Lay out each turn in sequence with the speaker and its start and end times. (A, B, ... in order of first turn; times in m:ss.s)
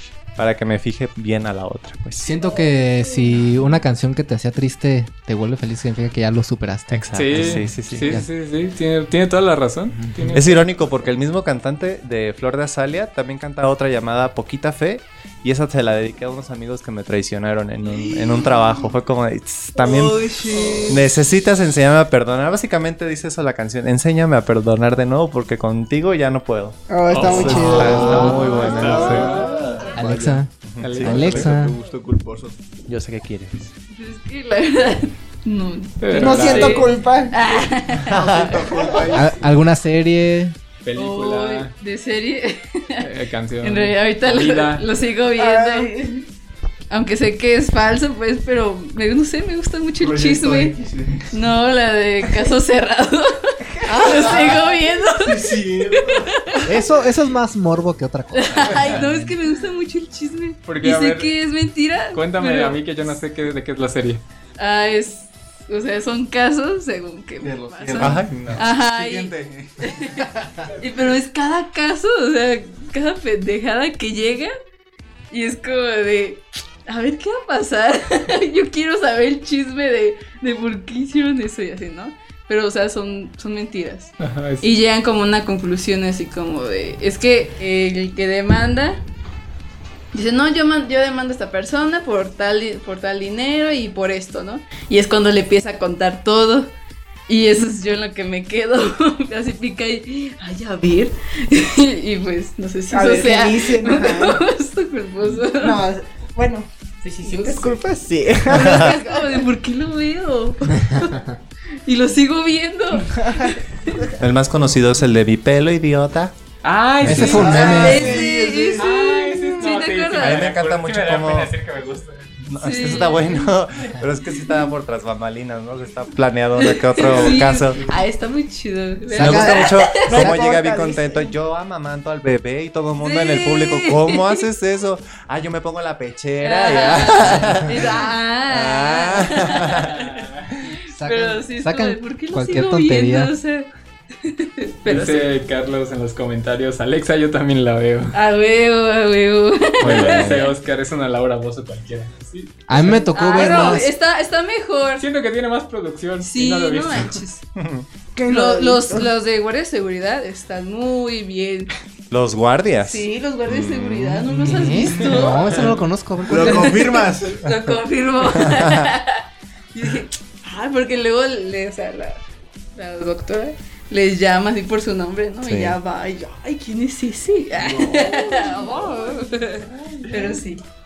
0:00.4-0:02.3 A
0:02.2-0:08.3 B
0:06.9-0:08.2 A
0:07.1-0:10.7 C
0:09.9-0:10.3 B
0:10.3-0:20.3 A
0:17.8-0:18.9 D
0:19.8-0:21.0 D
0:20.3-0:20.9 E
0:20.4-0:21.0 F
0:20.9-0:29.4 A
0:26.9-0:29.4 F
0:27.1-0:29.6 C
0:27.3-0:32.6 D
0:27.5-0:28.4 B
0:28.8-0:30.0 E
0:30.0-0:31.8 B
0:30.6-0:31.4 A
0:30.8-0:31.4 C
0:32.9-0:33.7 A
0:33.9-0:39.0 E
0:36.0-0:36.9 C
0:36.1-0:37.4 F
0:38.0-0:38.6 A
0:38.1-0:39.5 D
0:39.1-0:40.6 B
0:40.8-0:41.7 C
0:41.0-0:43.1 E
0:43.0-0:44.8 C
0:43.6-0:46.0 E
0:45.4-0:46.2 F
0:46.9-0:50.7 E
0:50.0-0:51.4 D
0:51.3-0:56.7 E
0:53.8-0:54.5 F
0:53.9-0:56.6 D
0:56.6-0:59.4 B
0:58.3-1:02.8 E
1:00.6-1:01.3 C
1:02.1-1:04.2 C
1:04.6-1:14.5 E
1:07.4-1:10.0 D
1:08.0-1:08.6 A
1:08.3-1:08.6 C
1:15.3-1:29.0 E
1:24.2-1:24.7 C
1:30.1-1:36.7 E
1:37.3-1:45.8 E
1:42.9-1:44.4 F
1:45.6-1:49.4 F
1:47.2-1:47.8 E
1:48.4-1:51.3 E
1:48.6-1:48.9 A
1:51.8-1:54.1 E
1:54.2-1:56.3 A
1:56.6-1:57.9 C
1:57.0-1:57.5 A
1:57.0-1:58.2 B
1:57.2-1:58.9 D
1:57.4-2:00.4 E
1:58.8-2:02.3 C
2:00.2-2:01.5 A
2:02.4-2:07.8 A
2:02.6-2:03.6 E
2:04.4-2:04.7 E
2:06.6-2:10.2 E
2:09.1-2:10.3 B
2:09.2-2:19.9 A
2:10.0-2:11.3 F
2:13.0-2:14.4 E
2:16.4-2:20.1 E
2:19.7-2:20.6 C
2:20.6-2:25.3 E
2:20.9-2:23.3 B
2:24.8-2:28.1 C
2:28.1-2:30.5 E
2:29.8-2:30.5 A
2:29.8-2:33.1 C
2:32.7-2:33.9 B
2:33.1-2:35.0 E
2:33.4-2:33.8 F
2:35.0-2:37.1 C
2:36.2-2:37.4 E
2:37.6-2:37.8 A
2:38.1-2:39.1 F
2:38.3-2:41.7 E
2:42.1-2:44.3 A
2:42.8-2:45.7 E
2:44.3-2:46.8 B
2:45.0-2:45.7 C
2:46.3-2:47.4 D
2:46.3-2:49.2 E
2:48.3-2:48.9 A
2:49.7-2:52.2 E
2:52.8-3:00.6 E
2:55.4-2:55.8 A
2:57.6-2:58.4 D